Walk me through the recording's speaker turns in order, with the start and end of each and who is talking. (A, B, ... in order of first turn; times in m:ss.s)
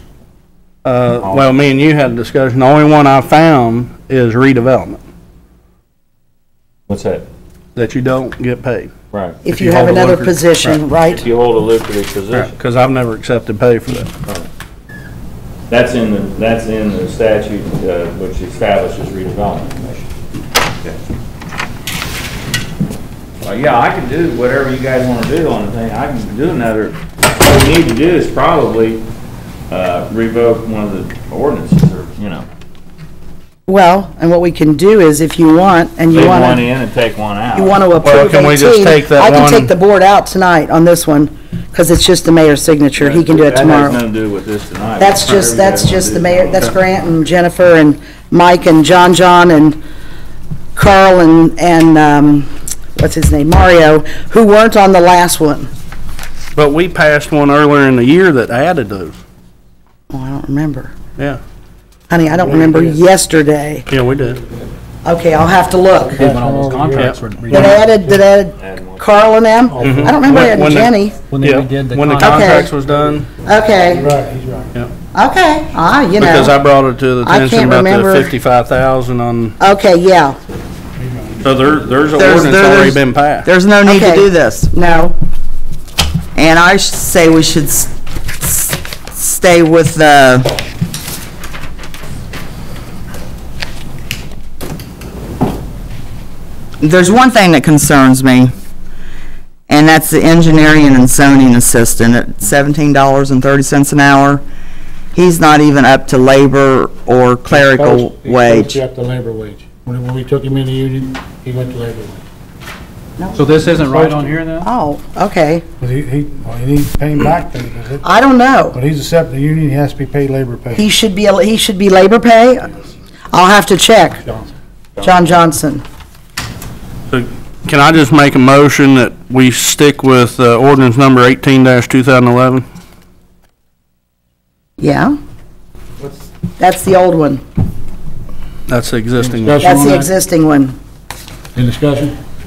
0:00.8-0:05.0 A
0:01.2-0:01.5 B
0:06.9-0:07.3 B
0:07.8-0:08.9 A
0:09.1-0:09.4 B
0:09.4-0:11.3 C
0:09.5-0:10.8 A
0:11.1-0:12.6 B
0:12.3-0:14.1 A
0:15.7-0:20.1 B
0:23.4-0:29.1 B
0:29.7-0:32.5 B
0:33.7-0:36.6 C
0:36.1-0:37.8 B
0:37.6-0:44.0 C
0:38.0-0:39.7 A
0:43.0-0:46.9 B
0:45.0-0:49.8 C
0:50.8-0:55.7 C
0:56.6-0:59.2 A
1:00.1-1:00.9 C
1:02.1-1:03.9 C
1:02.2-1:03.1 D
1:03.9-1:04.4 A
1:05.0-1:06.3 C
1:06.0-1:07.7 D
1:06.2-1:07.9 E
1:07.0-1:07.2 A
1:07.5-1:11.2 C
1:08.6-1:09.1 B
1:09.7-1:10.4 D
1:09.8-1:13.3 A
1:11.3-1:12.6 E
1:12.2-1:12.7 C
1:13.4-1:14.1 C
1:13.9-1:14.8 D
1:15.1-1:16.5 C
1:16.2-1:19.6 A
1:17.2-1:18.3 C
1:19.6-1:20.4 C
1:21.0-1:21.4 D
1:21.4-1:23.5 A
1:22.2-1:24.8 F
1:23.8-1:25.2 C
1:26.4-1:30.6 F
1:36.8-1:38.5 F
1:39.7-1:44.4 F
1:45.1-1:48.8 F
1:47.5-1:52.2 D
1:53.2-1:53.8 C
1:53.4-1:54.7 E
1:53.9-1:54.4 D
1:54.6-1:55.6 C
1:55.8-1:58.0 D
1:58.0-1:58.8 C
1:58.7-2:00.9 D
2:00.8-2:02.7 C
2:03.3-2:04.2 C
2:04.2-2:04.5 D
2:05.0-2:05.8 C
2:07.1-2:12.6 A
2:14.8-2:15.2 C
2:16.6-2:17.4 C
2:18.7-2:19.7 A
2:19.2-2:20.1 D
2:19.6-2:20.8 C
2:21.6-2:22.2 D